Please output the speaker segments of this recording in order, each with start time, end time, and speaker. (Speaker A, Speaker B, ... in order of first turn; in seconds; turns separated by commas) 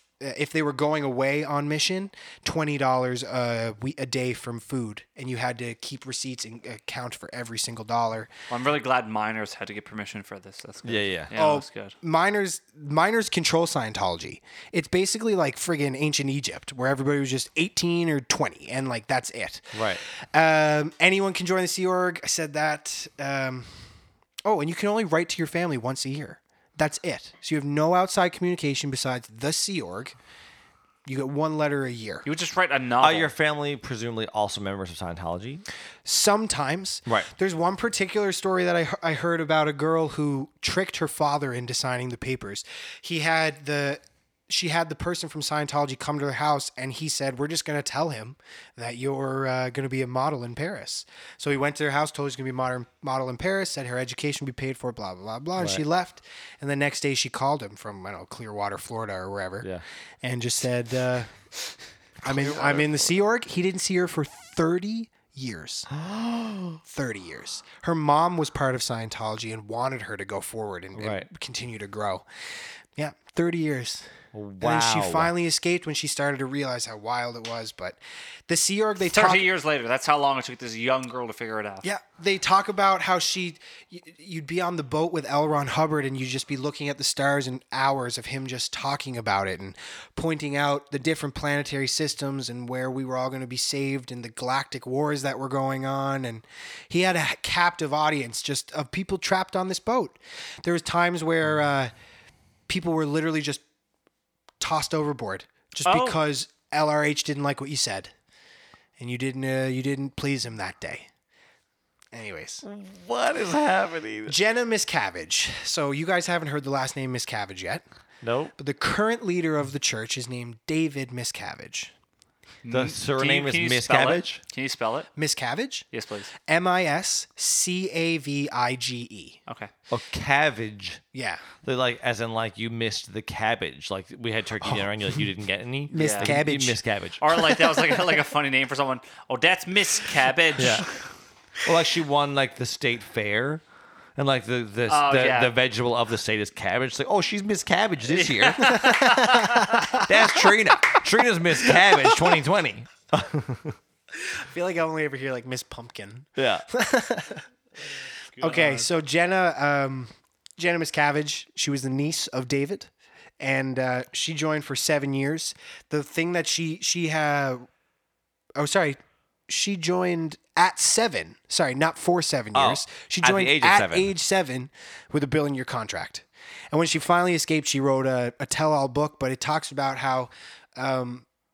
Speaker A: 0.2-8.3, Speaker B: 8.5-11.9, Speaker C: 10.8-11.3, Speaker A: 11.3-23.8, Speaker C: 19.7-20.0, Speaker A: 24.4-30.1, Speaker A: 31.1-32.2, Speaker B: 32.2-33.3, Speaker C: 33.0-35.6, Speaker A: 36.0-59.7, Speaker C: 55.6-55.8, Speaker A: 60.2-61.4, Speaker A: 62.2-65.9, Speaker C: 62.2-63.1, Speaker C: 65.9-66.8, Speaker A: 66.8-72.2, Speaker C: 70.9-71.3, Speaker A: 73.0-79.5, Speaker C: 74.3-75.3, Speaker B: 79.0-81.8, Speaker A: 81.8-101.9, Speaker A: 102.7-103.6, Speaker A: 104.6-108.1, Speaker B: 105.8-106.2, Speaker A: 109.0-111.1, Speaker A: 112.1-112.6, Speaker C: 112.6-114.3, Speaker A: 114.3-117.8, Speaker C: 118.2-118.5, Speaker A: 118.6-121.9, Speaker B: 122.6-125.1, Speaker C: 122.7-124.4, Speaker A: 125.2-125.8, Speaker B: 125.9-126.3, Speaker A: 126.5-129.4, Speaker C: 129.9-131.0, Speaker A: 131.1-131.4, Speaker C: 131.6-137.4, Speaker A: 135.9-136.8, Speaker B: 135.9-136.4, Speaker B: 137.2-140.9, Speaker C: 140.6-140.9, Speaker C: 141.6-143.6, Speaker C: 144.2-153.8, Speaker B: 144.9-145.5, Speaker B: 148.1-150.0, Speaker A: 148.7-150.5, Speaker A: 151.7-152.2, Speaker A: 154.1-157.4, Speaker C: 156.4-156.7, Speaker B: 158.4-158.9, Speaker A: 158.4-167.7, Speaker A: 168.6-169.0, Speaker A: 169.5-181.2, Speaker C: 172.5-174.1